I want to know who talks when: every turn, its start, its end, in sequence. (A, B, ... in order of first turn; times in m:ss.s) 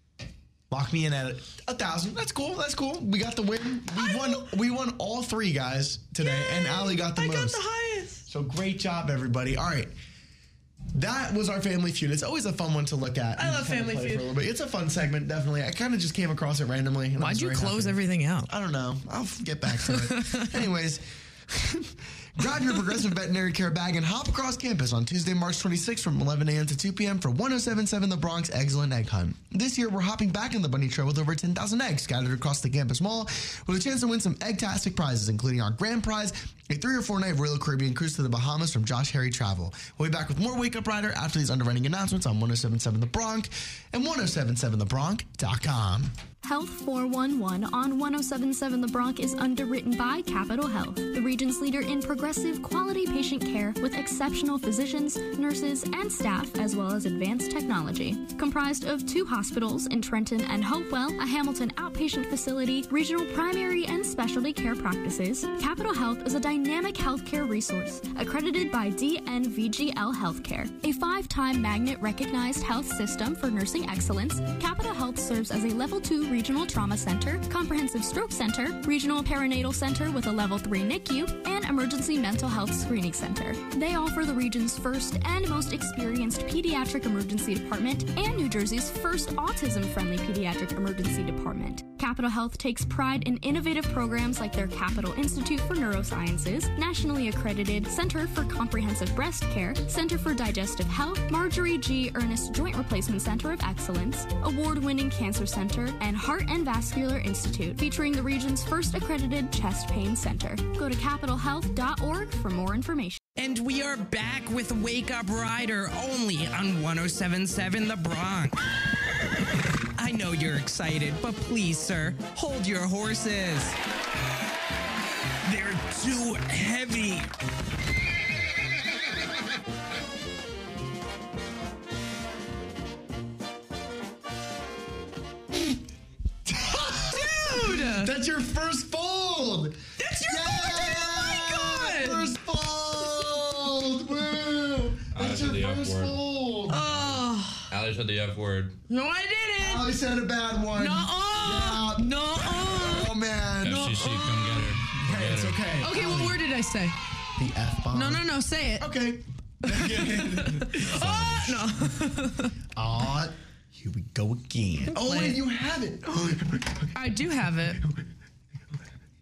0:00.7-0:07.6 A
0:03.9-0:04.5 B
0:06.2-0:08.2 B
0:08.3-0:09.9 A
0:10.9-0:46.1 A
0:13.4-0:14.3 B
0:17.2-0:18.5 B
0:19.8-0:20.6 B
0:46.4-1:53.2 C
1:53.4-1:58.6 D
2:00.0-2:03.8 D
2:05.5-2:07.3 D
2:16.4-2:26.9 A
2:17.1-2:18.1 B
2:20.0-2:22.3 B
2:25.1-2:26.2 E
2:26.7-2:27.7 B
2:26.9-2:28.8 E
2:28.9-2:29.9 B
2:29.6-2:34.1 A
2:30.8-2:34.7 B
2:33.6-2:35.7 E
2:34.9-2:36.4 A
2:35.8-2:37.0 B
2:37.4-2:41.3 A
2:37.9-2:38.9 B
2:39.7-2:42.6 B
2:40.8-2:41.7 E
2:42.7-2:48.1 A
2:44.9-2:45.4 B
2:47.0-2:47.8 B